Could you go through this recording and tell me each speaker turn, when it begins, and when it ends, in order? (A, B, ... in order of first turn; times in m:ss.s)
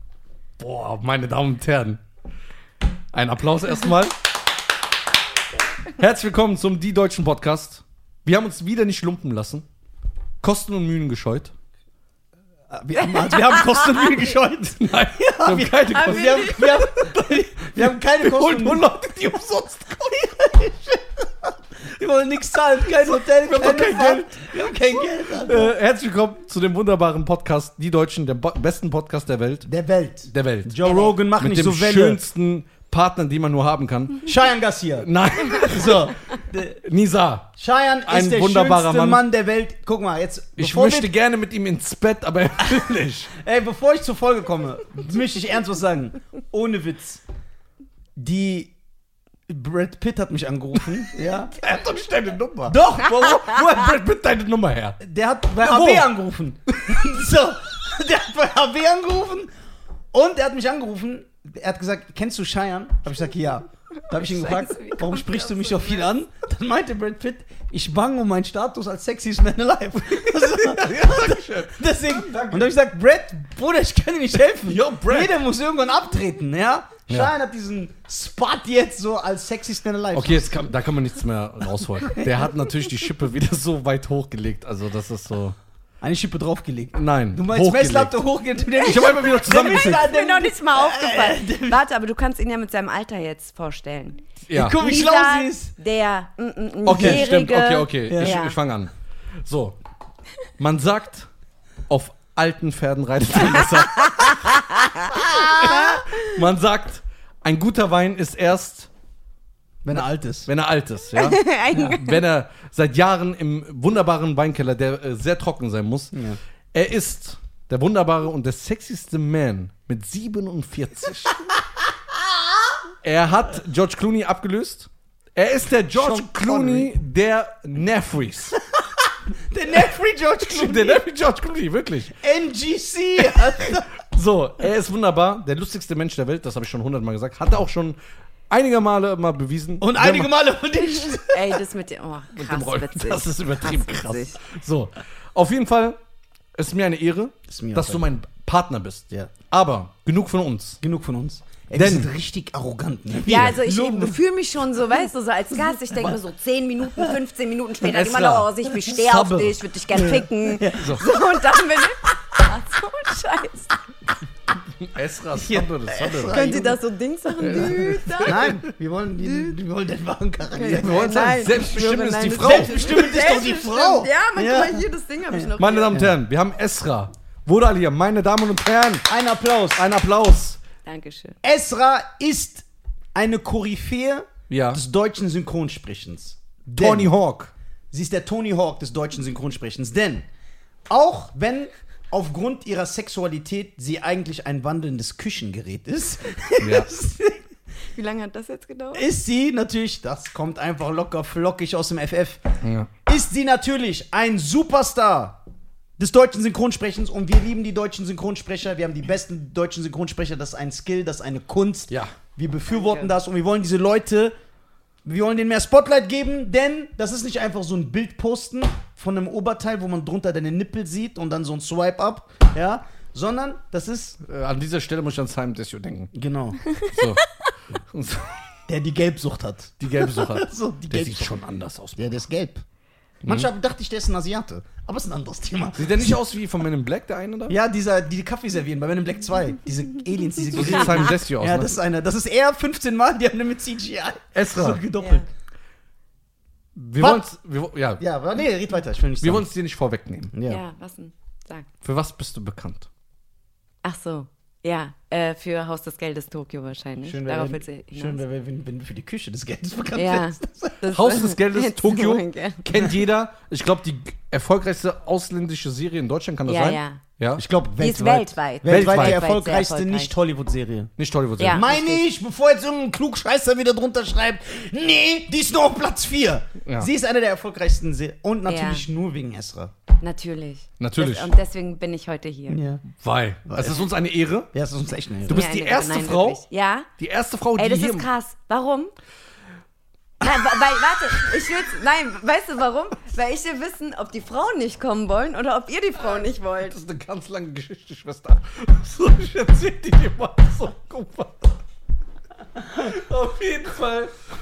0:00.6-0:02.0 A
0:03.1-0:04.1 A
0:06.0-0:09.6 A
0:10.4-0:11.5 A
0:12.7-0:25.7 B
0:13.0-0:14.0 C
0:14.8-0:19.9 A
0:15.9-0:16.8 C
0:23.0-0:29.7 A
0:29.6-0:32.2 B
0:30.3-0:34.3 A
0:34.2-0:36.8 B
0:35.0-0:36.2 A
0:36.8-0:37.5 A
0:37.6-0:41.1 B
0:38.0-0:39.2 A
0:40.6-0:43.3 A
0:43.3-0:47.2 B
0:48.2-0:48.7 B
0:49.5-0:51.6 B
0:51.4-0:55.0 A
0:52.6-0:53.4 B
0:55.0-0:59.5 B
0:55.6-0:56.1 A
0:56.7-0:57.0 A
1:00.1-1:20.6 B
1:04.1-1:06.2 C
1:10.2-1:12.7 A
1:14.6-1:15.3 A
1:20.1-1:25.6 A
1:26.0-1:31.8 B
1:26.9-1:28.2 A
1:28.8-1:30.1 A
1:28.8-1:34.2 C
1:34.5-1:34.8 A
1:34.5-1:35.7 B
1:34.8-1:38.6 C
1:36.8-1:39.8 A
1:36.9-1:37.3 B
1:38.1-1:38.4 B
1:40.6-1:41.3 A
1:41.9-1:48.9 A
1:43.6-1:46.4 C
1:45.3-1:45.8 B
1:49.8-1:50.5 B
1:49.9-1:56.1 A
1:51.1-1:52.2 C
1:56.1-1:56.4 B
1:56.7-2:01.5 A
2:03.0-2:08.6 A
2:05.9-2:06.9 B
2:09.5-2:11.0 B
2:10.4-2:12.2 A
2:12.1-2:13.9 B
2:13.2-2:18.0 A
2:18.5-2:20.3 A
2:19.8-2:21.6 B
2:20.8-2:24.4 C
2:22.4-2:26.0 A
2:26.6-2:30.8 A
2:27.5-2:28.1 B
2:30.8-2:34.2 B
2:31.7-2:32.1 A
2:33.2-2:43.8 C
2:35.5-2:36.2 B
2:37.8-2:39.6 A
2:39.9-2:41.1 B
2:40.8-2:41.0 A
2:44.8-2:46.6 A
2:45.3-2:46.8 B
2:46.3-2:48.5 C
2:47.4-2:48.7 A
2:47.4-2:51.4 B
2:49.2-2:49.5 C
2:50.5-2:56.0 C
2:50.7-2:52.7 A
2:52.4-2:56.1 B
2:55.6-2:59.1 A
2:59.1-2:59.9 B
2:59.8-3:00.6 A
3:00.8-3:01.4 C
3:01.4-3:07.1 B
3:04.5-3:04.8 A
3:06.7-3:07.5 A
3:07.9-3:10.2 B
3:10.9-3:17.5 B
3:16.6-3:16.9 A
3:17.9-3:19.1 C
3:18.9-3:25.4 B
3:22.6-3:22.9 A
3:26.0-3:34.3 B
3:32.7-3:33.1 C
3:35.0-3:44.2 B
3:44.2-3:46.1 A
3:46.1-3:46.6 B
3:46.6-3:47.1 C
3:46.8-3:48.5 A
3:48.7-3:51.3 B
3:49.8-3:52.2 A
3:52.0-3:52.6 B
3:53.2-3:53.5 A
3:53.2-3:56.2 B
3:55.8-3:57.6 A
3:57.5-4:05.2 B
4:00.5-4:01.8 A
4:04.3-4:04.8 A
4:05.0-4:05.3 C
4:06.7-4:08.0 A
4:07.0-4:07.2 B
4:08.0-4:09.5 B
4:09.2-4:10.3 A
4:10.3-4:10.6 B
4:10.4-4:11.7 C
4:11.8-4:12.9 A
4:13.8-4:18.2 C
4:17.0-4:20.8 B
4:19.9-4:22.6 C
4:20.9-4:27.4 A
4:22.7-4:23.0 B
4:26.4-4:27.0 C
4:27.4-4:30.9 B
4:27.8-4:30.1 C
4:28.7-4:29.2 A
4:31.0-4:31.7 A
4:31.4-4:32.0 C
4:31.5-4:39.7 B
4:36.6-4:36.9 A
4:38.4-4:38.8 C
4:40.0-4:42.6 C
4:40.8-4:41.3 A
4:42.5-4:42.8 B
4:42.9-4:44.5 A
4:43.4-4:43.9 B
4:44.5-4:45.4 B
4:45.3-4:46.4 A
4:45.3-4:46.9 C
4:47.0-4:48.1 A
4:47.6-4:48.9 C
4:50.2-4:56.8 C
4:56.7-5:01.6 A
5:02.7-5:04.2 A